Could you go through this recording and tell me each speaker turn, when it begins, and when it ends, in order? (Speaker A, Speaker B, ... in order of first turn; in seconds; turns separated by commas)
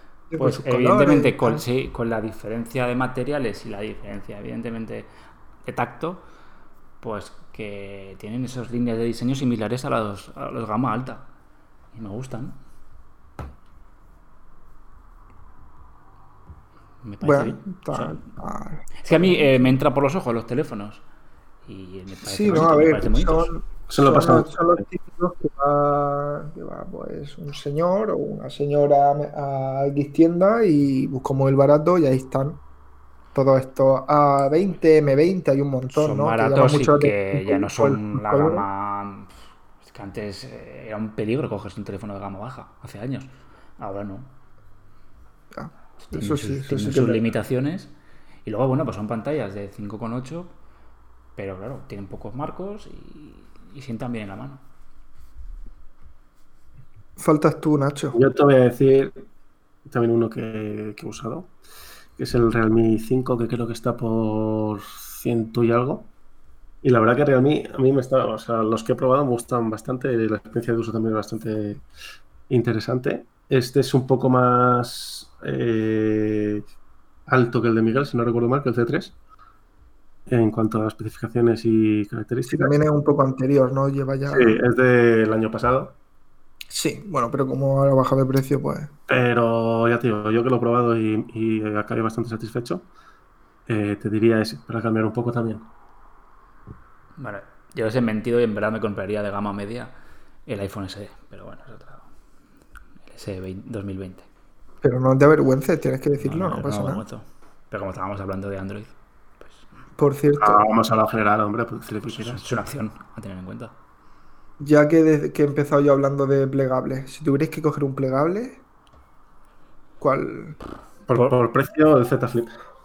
Speaker A: 0.3-1.6, Speaker B: 0.4-5.1, Speaker B: 5.7-6.2, Speaker B: 7.0-11.3, Speaker B: 11.9-12.6, Speaker B: 17.0-18.2, Speaker A: 17.2-19.7, Speaker B: 19.0-21.0, Speaker B: 21.7-23.5, Speaker A: 22.2-32.6, Speaker C: 23.9-24.8, Speaker A: 33.4-38.6, Speaker B: 35.9-39.3, Speaker B: 39.8-44.3, Speaker A: 45.5-47.3, Speaker B: 46.0-47.9, Speaker B: 48.5-50.5, Speaker B: 51.4-54.6, Speaker A: 57.2-58.2, Speaker C: 58.1-59.2, Speaker C: 59.9-61.5, Speaker C: 62.2-66.1, Speaker C: 66.8-71.8, Speaker C: 72.5-76.6, Speaker C: 77.3-79.2, Speaker C: 80.3-82.7, Speaker A: 82.5-84.6, Speaker C: 84.3-86.0, Speaker A: 86.7-88.9, Speaker C: 89.1-92.9, Speaker C: 93.7-95.7, Speaker B: 97.2-99.9, Speaker B: 100.5-102.1, Speaker B: 103.1-104.3, Speaker A: 104.8-107.0, Speaker B: 106.2-109.6, Speaker A: 110.0-110.6, Speaker C: 110.4-112.4, Speaker B: 112.1-113.7, Speaker A: 114.6-118.6, Speaker A: 120.0-120.6, Speaker C: 121.1-122.5